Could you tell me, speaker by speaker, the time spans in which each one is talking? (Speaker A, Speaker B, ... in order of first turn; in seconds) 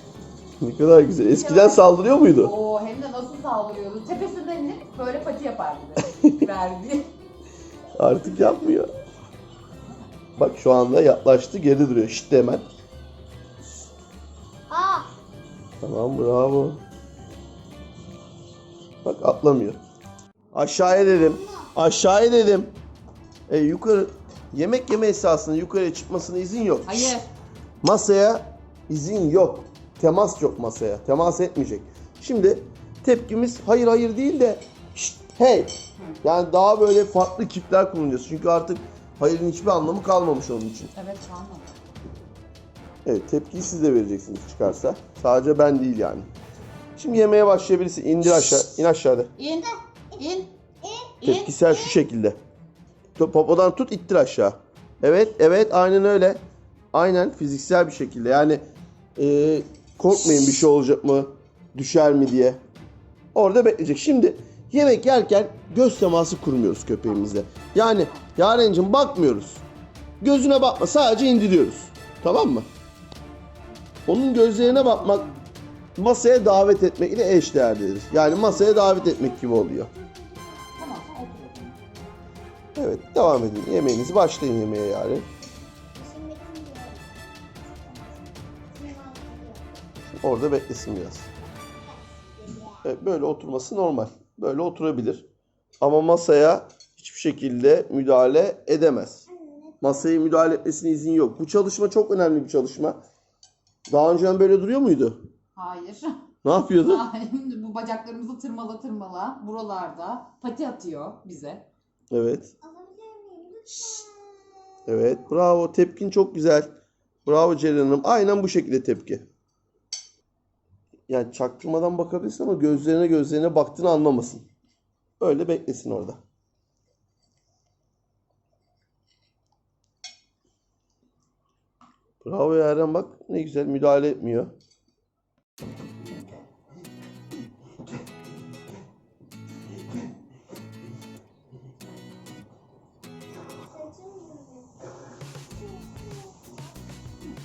Speaker A: 0.6-2.5, 8.0-8.9, 10.4-12.7, 15.8-16.8, 19.0-19.8, 20.5-22.8, 23.5-27.2, 27.8-40.9, 43.0-46.3, 47.0-49.3, 51.2-52.4, 53.1-58.6, 59.1-62.6, 63.3-69.6, 70.2-72.7, 74.1-75.3, 76.0-79.9, 82.7-85.3, 90.1-91.3, 92.8-95.3, 95.8-99.2, 99.8-103.0, 103.9-105.2, 106.4-107.0, 112.1-112.5, 114.9-116.7, 117.2-119.2, 121.1-124.5, 125.2-126.2, 132.2-134.5
Speaker B: 1.3-7.1, 26.9-27.3, 40.9-41.7, 49.4-50.5, 51.2-51.5, 74.6-75.4, 80.8-81.7, 105.5-106.1, 106.7-111.7, 113.7-114.0
Speaker C: 14.7-15.1, 20.9-21.7, 49.5-50.2, 50.8-52.0, 78.2-81.0, 85.9-87.1, 87.8-88.1, 88.7-89.6, 91.9-92.8, 99.3-99.8, 112.6-114.4, 143.4-144.7, 145.5-146.7